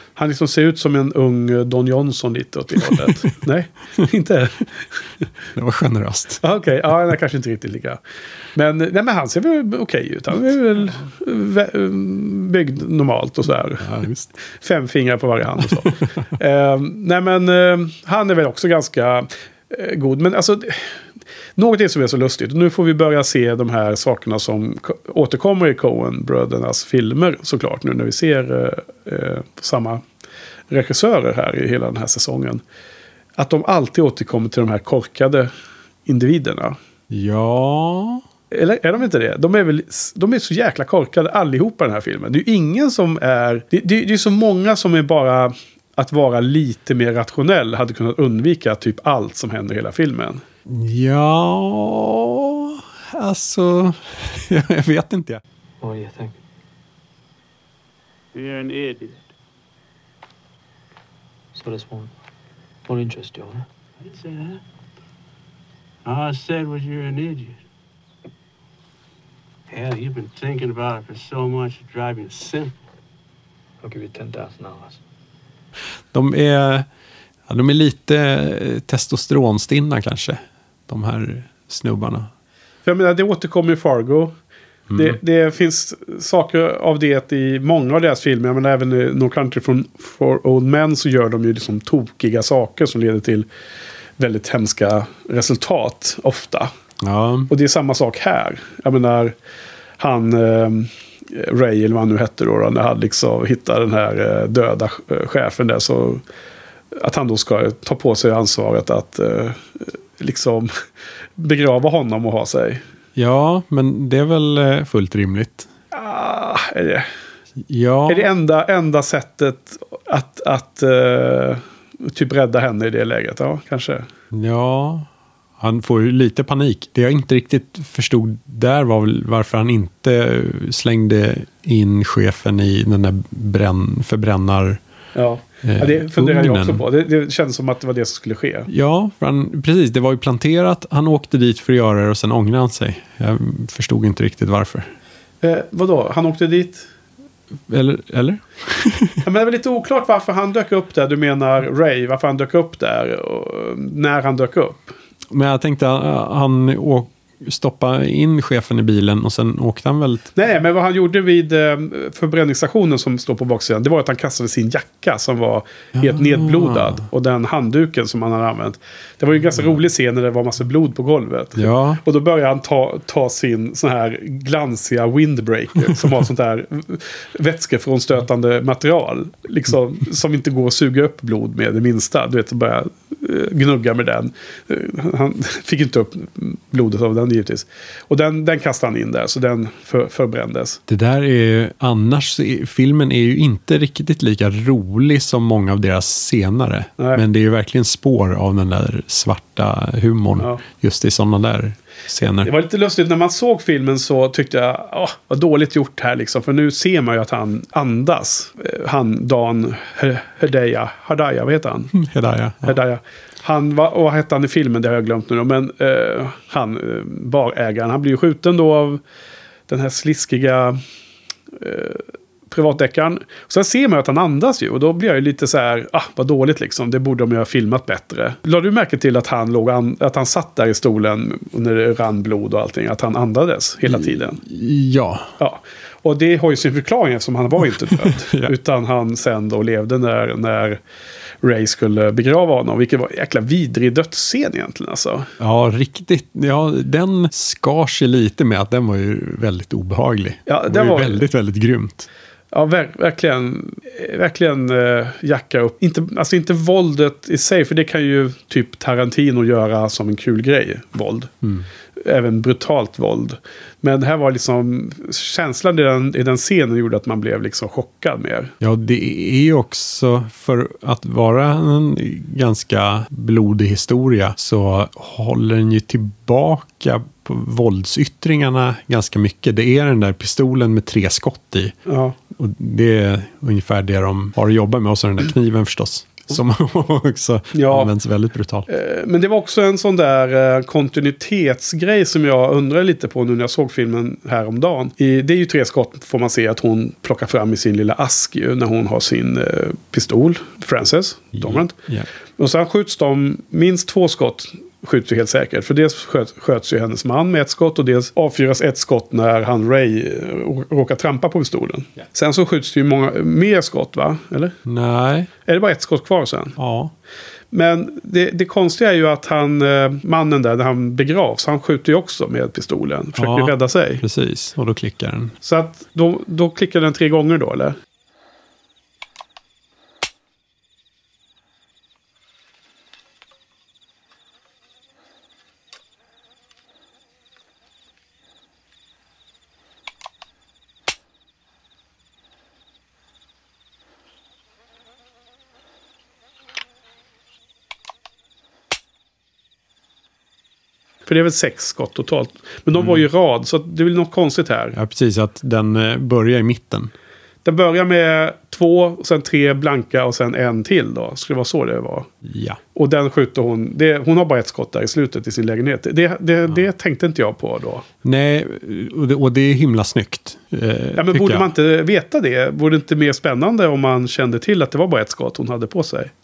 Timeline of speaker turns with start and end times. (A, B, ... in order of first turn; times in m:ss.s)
0:00.2-0:04.8 A
0:02.8-0:03.1 B
0:05.5-0:06.4 B
0:06.4-0:08.0 A
0:08.5-0:13.9 A
0:13.8-0:14.3 B
0:14.4-0:21.0 A
0:15.6-0:16.1 B
0:21.6-0:30.0 A
0:30.7-0:32.6 A
0:33.4-0:35.5 A
0:36.0-0:36.8 A
0:37.1-0:38.2 B
0:38.5-0:50.4 A
0:50.7-0:55.4 B
0:55.8-0:56.4 C
0:58.3-0:59.3 D
1:01.5-1:02.1 C
1:02.9-1:03.6 C
1:04.0-1:04.6 D
1:06.0-1:07.6 D
1:09.7-1:12.7 D
1:13.8-1:15.0 C
1:16.1-1:16.9 B
1:17.5-1:22.3 B
1:22.8-1:24.3 A
1:24.9-1:25.2 B
1:24.9-1:33.5 A
1:34.2-1:36.7 A
1:37.0-1:37.5 B
1:37.5-1:39.3 A
1:40.0-1:46.2 A
1:46.9-1:50.7 A
1:51.4-1:52.8 A
1:53.2-1:55.7 B
1:55.9-1:57.1 A
1:57.6-1:58.3 B
1:58.1-2:04.1 A
2:04.3-2:05.1 B
2:05.6-2:14.8 B
2:15.1-2:18.7 A
2:15.6-2:16.8 B
2:18.7-2:24.9 B
2:25.4-2:26.9 A
2:27.7-2:29.2 B
2:29.2-2:34.9 A
2:35.3-2:40.3 B
2:40.4-3:10.8 A
2:46.0-2:47.0 B
2:51.6-2:52.0 B
3:10.9-3:22.5 B
3:17.0-3:17.2 A
3:22.4-3:31.9 A
3:31.9-3:32.8 B
3:32.6-3:39.0 A
3:39.7-3:40.8 A
3:41.6-3:54.4 A
3:53.8-3:55.3 B
3:55.4-4:00.8 A
3:58.0-3:58.5 B
4:01.4-4:05.3 A
4:05.4-4:12.1 B
4:10.5-4:11.2 A
4:12.5-4:21.3 A
4:21.4-4:21.7 B
4:22.0-4:28.5 A
4:28.6-4:41.8 B
4:41.9-4:42.2 A
4:42.3-4:48.7 B
4:47.5-4:47.9 A
4:48.7-5:01.7 A
5:01.3-5:02.1 B
5:02.4-5:14.5 A
5:14.6-5:15.3 B
5:15.4-5:16.6 A
5:16.6-5:16.9 B
5:17.5-5:24.0 A
5:23.2-5:25.3 B
5:25.4-5:27.8 A
5:51.0-5:54.8 A
5:52.8-5:53.0 B
5:54.7-5:56.9 B
5:57.4-6:02.1 A
6:02.2-6:02.6 B
6:02.7-6:07.8 A
6:08.0-6:11.4 B
6:11.0-6:16.1 A